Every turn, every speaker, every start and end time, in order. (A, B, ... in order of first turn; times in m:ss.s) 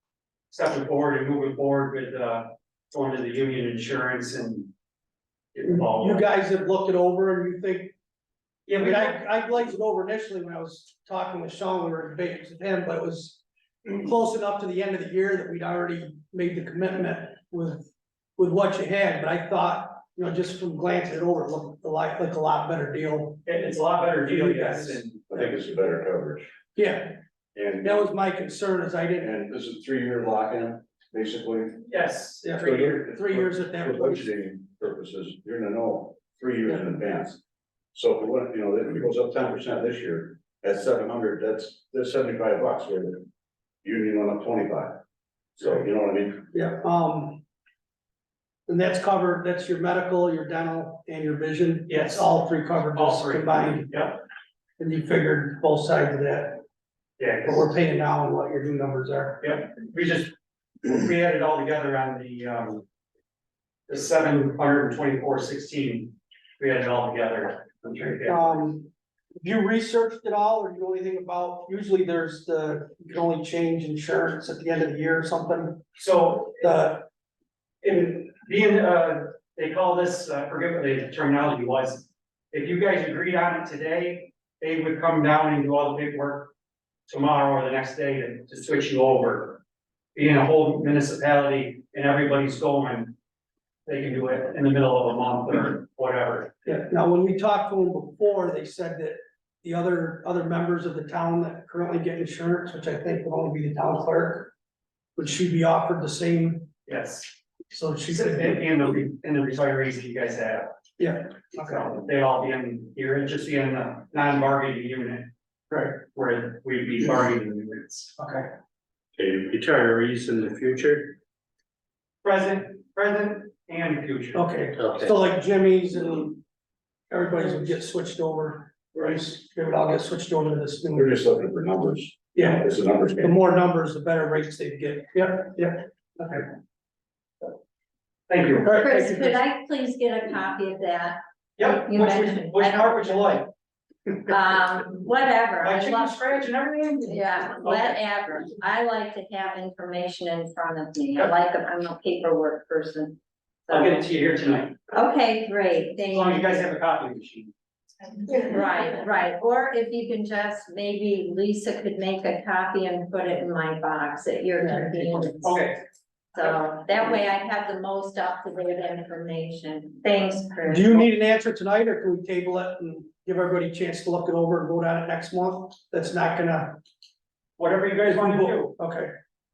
0:00.5-0:04.7 A
0:05.5-0:06.3 A
0:05.6-0:07.9 B
0:08.7-0:09.2 A
0:08.8-0:23.4 B
0:23.4-0:25.5 A
0:24.3-0:25.0 B
0:25.3-0:26.5 C
0:26.8-0:27.2 B
0:27.6-0:27.9 C
0:27.8-0:29.3 B
0:29.2-0:31.8 C
0:31.9-0:33.0 A
0:32.4-0:34.3 B
0:32.6-0:37.4 C
0:37.9-0:43.3 C
0:43.8-0:45.0 C
0:45.6-0:46.5 C
0:46.5-0:47.4 B
0:48.7-0:53.9 B
0:51.9-0:52.3 A
0:53.0-0:54.2 A
0:54.8-0:56.6 B
0:57.2-0:57.7 A
0:57.4-0:59.4 B
0:59.4-1:02.8 A
1:03.9-1:08.4 A
1:08.2-1:15.8 B
1:16.0-1:16.8 A
1:16.6-1:17.1 B
1:17.8-1:26.5 A
1:27.1-1:29.6 A
1:30.2-1:33.2 A
1:33.9-1:36.5 A
1:36.6-1:44.5 B
1:45.2-1:46.7 B
1:46.9-1:47.3 A
1:47.7-1:48.7 B
1:48.0-1:50.7 A
1:51.0-1:51.8 B
1:51.5-1:55.3 A
1:55.7-1:56.0 B
1:56.1-1:58.2 A
1:58.2-1:58.5 B
1:59.2-2:01.2 D
2:02.2-2:04.6 A
2:04.3-2:06.4 B
2:04.8-2:05.1 D
2:07.1-2:11.1 B
2:11.0-2:13.3 C
2:12.4-2:12.6 B
2:13.2-2:16.5 B
2:18.3-2:19.0 A
2:18.6-2:19.3 B
2:18.7-2:23.4 E
2:21.6-2:23.5 A
2:24.3-2:26.3 E
2:25.6-2:28.0 A
2:27.1-2:34.1 E
2:33.7-2:34.8 A
2:34.9-2:36.7 E
2:36.1-2:37.5 A
2:38.3-2:45.6 E
2:45.4-2:45.8 A
2:46.3-2:51.1 E
2:50.7-2:56.8 B
2:57.6-2:58.8 A
2:58.1-2:59.1 B